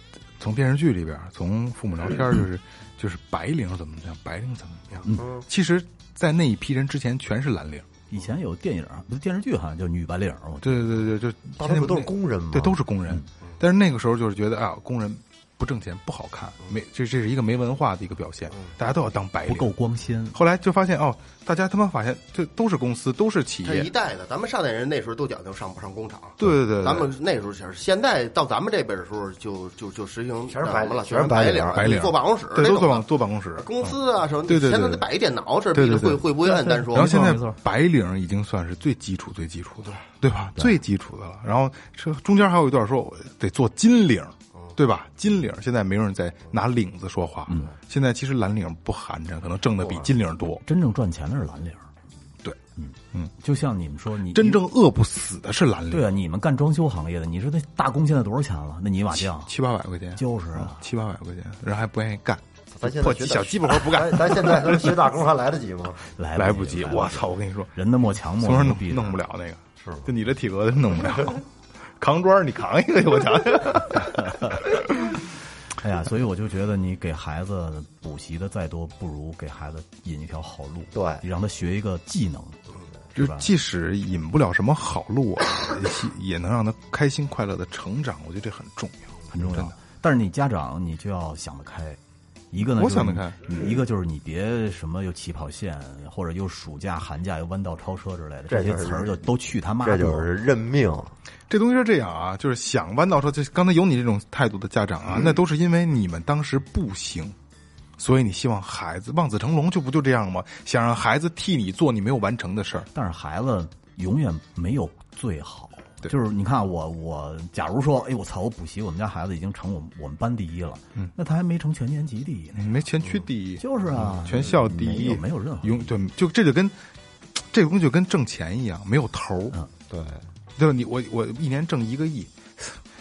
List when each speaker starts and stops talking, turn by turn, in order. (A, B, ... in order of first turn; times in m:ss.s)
0:00.4-0:07.9 A
0:05.2-0:05.4 B
0:08.1-0:11.0 C
0:10.6-0:19.7 A
0:11.6-0:12.8 B
0:19.4-0:20.4 C
0:20.3-0:23.9 A
0:23.6-0:37.3 D
0:26.4-0:27.1 A
0:30.5-0:32.0 B
0:31.7-0:33.9 A
0:34.5-0:35.0 A
0:35.7-0:36.2 A
0:36.4-0:37.6 C
0:36.9-0:50.6 A
0:50.6-0:51.8 C
0:52.8-0:54.6 C
0:54.3-0:56.1 A
0:55.9-0:59.5 C
0:59.2-1:05.1 A
1:00.2-1:00.8 C
1:02.7-1:06.0 B
1:06.2-1:09.2 C
1:06.4-1:07.7 A
1:08.4-1:11.4 A
1:09.8-1:10.1 B
1:12.0-1:15.1 A
1:15.8-1:22.6 C
1:20.9-1:21.2 B
1:23.1-1:23.5 C
1:23.2-1:29.7 A
1:29.3-1:32.0 C
1:32.5-1:40.3 C
1:32.7-1:33.4 A
1:38.5-1:39.2 B
1:39.8-1:41.1 B
1:41.5-1:47.3 A
1:48.0-1:52.9 A
1:52.9-2:02.8 C
2:02.6-2:06.8 A
2:03.6-2:05.9 C
2:07.3-2:09.6 A
2:09.9-2:10.2 B
2:10.6-2:12.8 A